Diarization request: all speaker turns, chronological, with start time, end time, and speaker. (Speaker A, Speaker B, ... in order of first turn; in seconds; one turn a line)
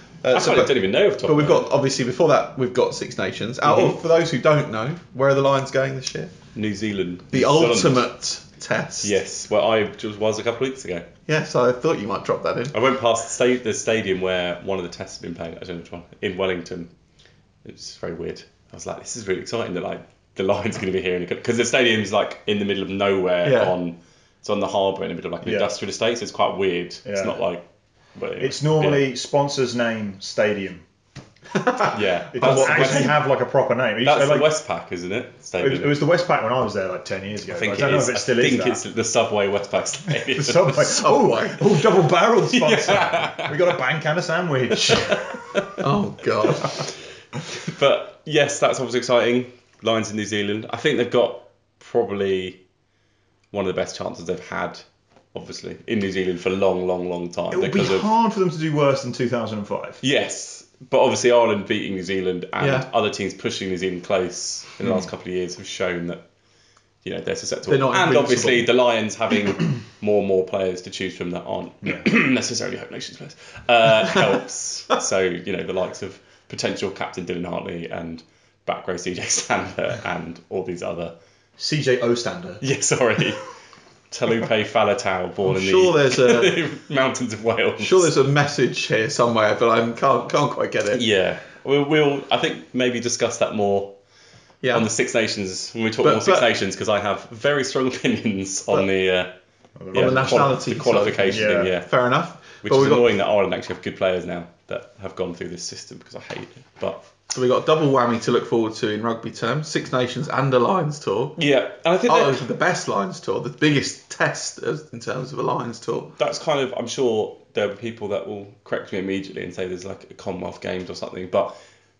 Speaker A: 0.2-6.3
Speaker B: 0.3-1.7
Speaker B: 3.6-4.0
Speaker B: 6.5-8.1
Speaker A: 7.3-9.2
Speaker B: 9.0-11.1
Speaker A: 11.3-12.8
Speaker B: 12.7-16.9
Speaker B: 17.6-27.6
Speaker A: 23.4-23.8
Speaker C: 25.4-25.7
Speaker C: 27.1-27.4
Speaker B: 28.2-29.0
Speaker C: 28.4-30.8
Speaker A: 31.5-33.2
Speaker B: 31.9-33.2
Speaker C: 32.3-34.5
Speaker B: 34.0-36.0
Speaker C: 35.6-38.8
Speaker B: 37.5-40.8
Speaker C: 40.1-45.7
Speaker A: 40.7-41.8
Speaker B: 42.5-43.7
Speaker B: 45.0-45.7
Speaker A: 45.8-46.8
Speaker B: 47.5-52.6
Speaker B: 53.5-58.1
Speaker C: 57.5-60.0
Speaker B: 60.0-66.2
Speaker A: 62.6-62.9
Speaker B: 67.0-81.1
Speaker A: 67.7-68.7
Speaker C: 81.6-82.6
Speaker B: 82.6-83.5
Speaker B: 84.1-88.1
Speaker A: 85.4-86.6
Speaker A: 87.8-91.0
Speaker B: 90.9-93.9
Speaker A: 94.6-94.9
Speaker B: 94.7-99.3
Speaker A: 96.0-96.5
Speaker C: 99.8-100.6
Speaker B: 99.9-101.9
Speaker A: 99.9-103.1
Speaker C: 101.3-101.7
Speaker B: 102.6-107.0
Speaker A: 107.3-111.4
Speaker B: 111.4-112.5
Speaker A: 112.1-116.1
Speaker B: 116.2-121.5